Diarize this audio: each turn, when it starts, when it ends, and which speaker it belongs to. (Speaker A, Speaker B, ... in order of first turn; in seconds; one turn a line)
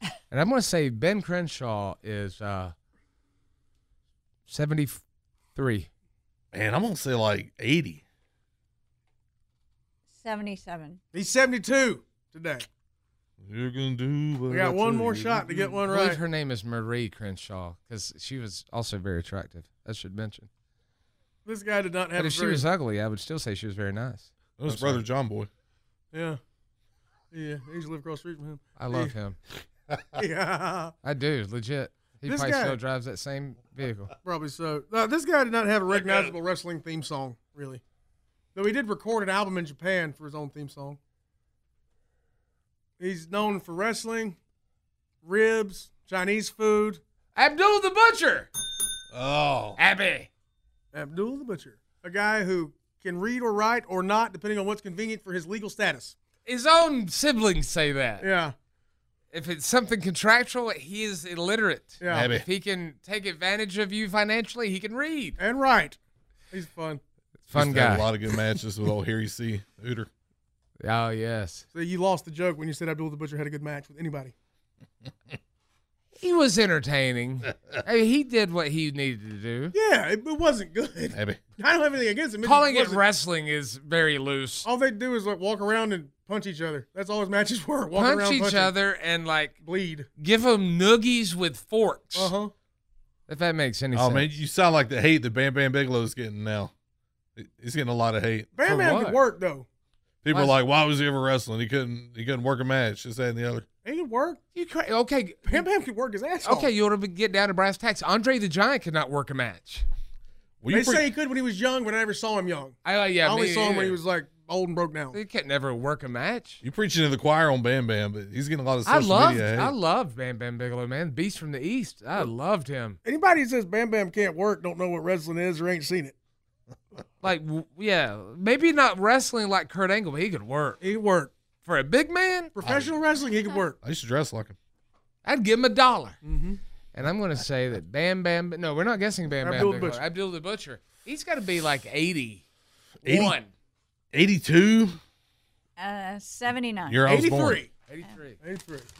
Speaker A: 0.3-2.7
Speaker A: 4.5-5.0
Speaker A: 5.5-5.9
Speaker B: 6.5-8.0
Speaker C: 10.1-11.0
Speaker D: 11.1-12.7
Speaker B: 13.4-15.5
Speaker D: 14.5-16.2
Speaker A: 15.5-20.5
Speaker D: 21.4-22.6
Speaker A: 22.2-25.0
Speaker B: 24.6-25.5
Speaker D: 26.1-26.4
Speaker D: 27.3-29.1
Speaker A: 28.8-29.4
Speaker D: 30.1-30.9
Speaker A: 31.0-34.1
Speaker D: 32.2-32.8
Speaker D: 34.2-37.8
Speaker D: 38.5-41.0
Speaker D: 43.0-44.4
Speaker D: 45.2-47.0
Speaker A: 47.3-48.5
Speaker B: 49.1-49.8
Speaker A: 49.8-50.3
Speaker D: 50.9-56.1
Speaker A: 56.4-58.3
Speaker D: 58.2-58.5
Speaker A: 59.3-65.4
Speaker D: 62.0-62.3
Speaker B: 62.1-62.4
Speaker D: 65.4-66.0
Speaker D: 66.5-67.0
Speaker A: 67.5-68.1
Speaker B: 67.5-70.1
Speaker A: 70.8-71.6
Speaker D: 71.7-74.3
Speaker A: 76.2-79.7
Speaker D: 79.7-83.0
Speaker B: 81.1-81.4
Speaker A: 82.4-84.7
Speaker D: 84.6-88.7
Speaker A: 87.9-89.6
Speaker D: 89.6-90.1
Speaker A: 90.2-92.3
Speaker D: 92.1-92.5
Speaker A: 93.3-94.3
Speaker B: 93.9-96.7
Speaker B: 97.4-98.5
Speaker D: 98.5-99.7
Speaker A: 98.6-99.2
Speaker B: 100.2-103.7
Speaker D: 103.8-104.4
Speaker A: 104.5-105.7
Speaker D: 105.5-106.7
Speaker A: 106.4-109.8
Speaker B: 110.6-111.1
Speaker D: 110.7-115.2
Speaker A: 112.8-114.0
Speaker A: 115.1-116.6
Speaker B: 116.6-119.7
Speaker A: 118.8-123.0
Speaker D: 123.0-126.1
Speaker A: 127.2-130.8
Speaker D: 130.8-131.3
Speaker A: 131.6-132.5
Speaker D: 132.5-133.8
Speaker B: 132.6-132.9
Speaker B: 133.8-134.6
Speaker A: 135.2-136.2
Speaker D: 136.2-136.6
Speaker A: 136.9-142.4
Speaker D: 139.4-140.0
Speaker A: 143.0-143.5
Speaker B: 143.1-143.3
Speaker B: 144.1-145.0
Speaker C: 145.8-147.1
Speaker B: 146.9-147.6
Speaker D: 147.0-147.7
Speaker A: 147.9-148.4
Speaker D: 148.4-148.9